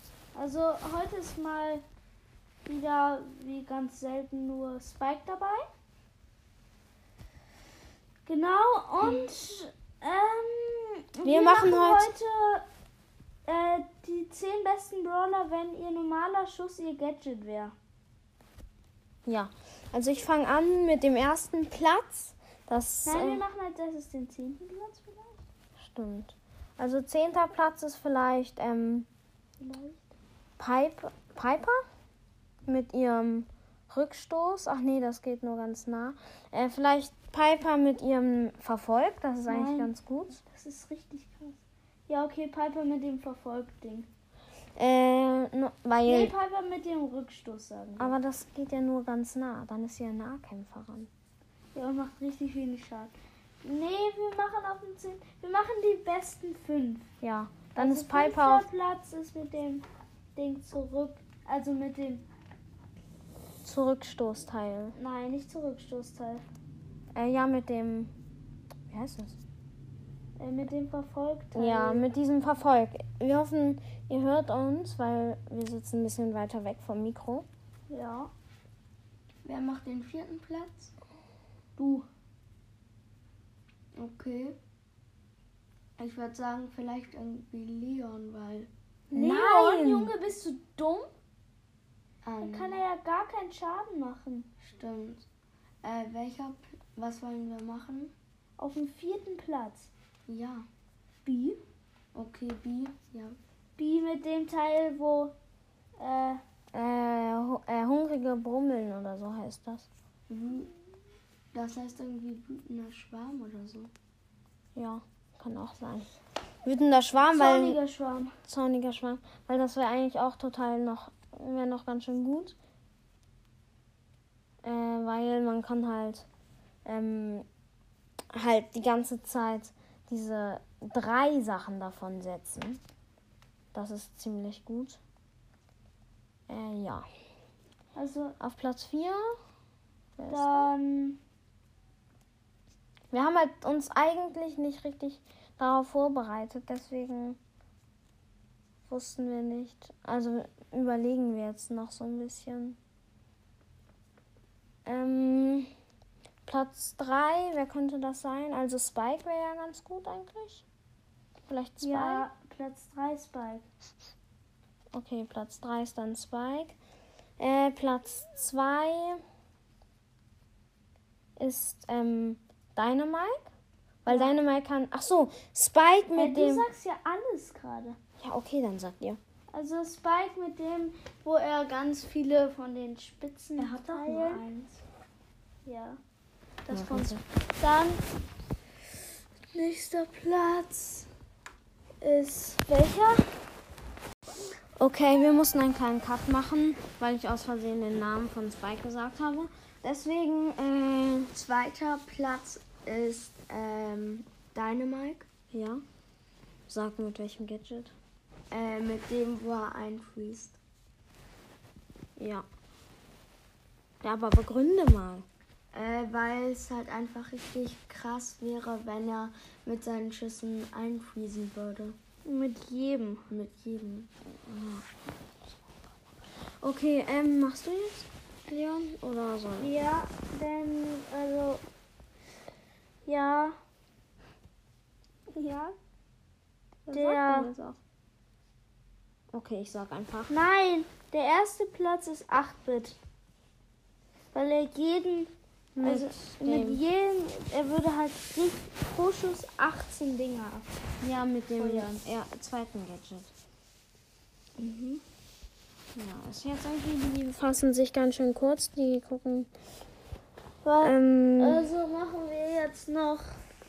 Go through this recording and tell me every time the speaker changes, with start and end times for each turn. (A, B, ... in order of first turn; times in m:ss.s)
0:00.3-0:01.8 A
0:02.6-0:05.7 A
0:08.2-0:12.6 A
0:11.2-0:12.1 B
0:13.4-0:17.7 A
0:19.2-0:23.4 B
0:23.0-0:25.4 A
0:25.8-0:29.1 B
0:29.6-0:30.1 A
0:30.6-0:31.8 B
0:32.6-0:40.4 B
0:39.5-0:39.9 A
0:40.4-0:44.1 A
0:44.8-0:46.3 B
0:46.0-0:48.1 A
0:48.0-0:51.1 B
0:51.7-0:57.0 A
0:57.2-0:58.7 B
0:57.8-0:59.8 A
1:00.4-1:02.2 A
1:03.6-1:04.9 B
1:04.9-1:06.4 A
1:07.1-1:08.1 B
1:08.9-1:09.4 B
1:10.4-1:12.1 A
1:11.5-1:17.5 B
1:17.9-1:18.3 A
1:19.4-1:20.9 C
1:21.8-1:22.1 A
1:23.9-1:24.6 C
1:26.0-1:28.7 C
1:29.1-1:30.1 B
1:29.1-1:31.1 A
1:32.2-1:32.8 C
1:32.4-1:34.5 A
1:34.6-1:35.2 C
1:35.8-1:38.1 C
1:38.6-1:39.9 A
1:40.3-1:40.6 C
1:41.2-1:41.6 A
1:42.1-1:43.4 C
1:43.8-1:45.3 A
1:46.0-1:46.4 A
1:46.7-1:49.9 B
1:50.3-1:50.7 C
1:51.5-1:53.9 C
1:54.7-1:56.1 B
1:56.6-1:57.8 B
1:57.2-1:58.3 A
1:58.4-2:02.6 B
2:04.6-2:06.2 B
2:06.8-2:07.5 B
2:08.3-2:12.8 B
2:13.7-2:15.0 B
2:16.5-2:17.1 B
2:17.9-2:18.4 A
2:18.4-2:19.4 B
2:20.2-2:20.7 B
2:20.3-2:21.2 A
2:23.1-2:27.4 B
2:28.9-2:32.8 B
2:34.8-2:35.7 B
2:36.4-2:40.6 B
2:41.4-2:42.2 B
2:41.8-2:43.6 A
2:44.9-2:46.8 B
2:47.4-2:49.2 B
2:51.4-2:53.5 B
2:54.0-2:56.6 B
2:54.1-2:54.4 A
2:56.1-2:58.0 A
2:58.2-2:59.2 B
2:59.5-3:04.5 A
3:03.6-3:04.7 C
3:05.6-3:06.0 A
3:06.6-3:08.0 A
3:06.7-3:07.2 B
3:09.5-3:11.1 A
3:12.0-3:13.3 A
3:14.8-3:21.3 B
3:21.3-3:25.3 C
3:25.5-3:25.8 B
3:26.7-3:27.9 B
3:28.5-3:30.6 C
3:32.2-3:32.4 B
3:34.0-3:35.3 B
3:35.7-3:42.0 C
3:42.2-3:43.2 A
3:43.3-3:44.1 C
3:44.4-3:44.9 B
3:46.6-3:49.7 B
3:49.6-3:51.6 A
3:53.0-3:53.6 A
3:55.3-3:55.7 A
3:56.8-3:57.8 B
3:56.9-3:57.5 A
3:59.3-4:00.3 B
4:00.3-4:03.0 A
4:04.3-4:10.7 A
4:05.7-4:06.8 B
4:11.0-4:13.3 B
4:11.5-4:12.0 A
4:14.6-4:15.0 A
4:15.9-4:19.5 B
4:20.6-4:23.4 A
4:20.8-4:21.6 B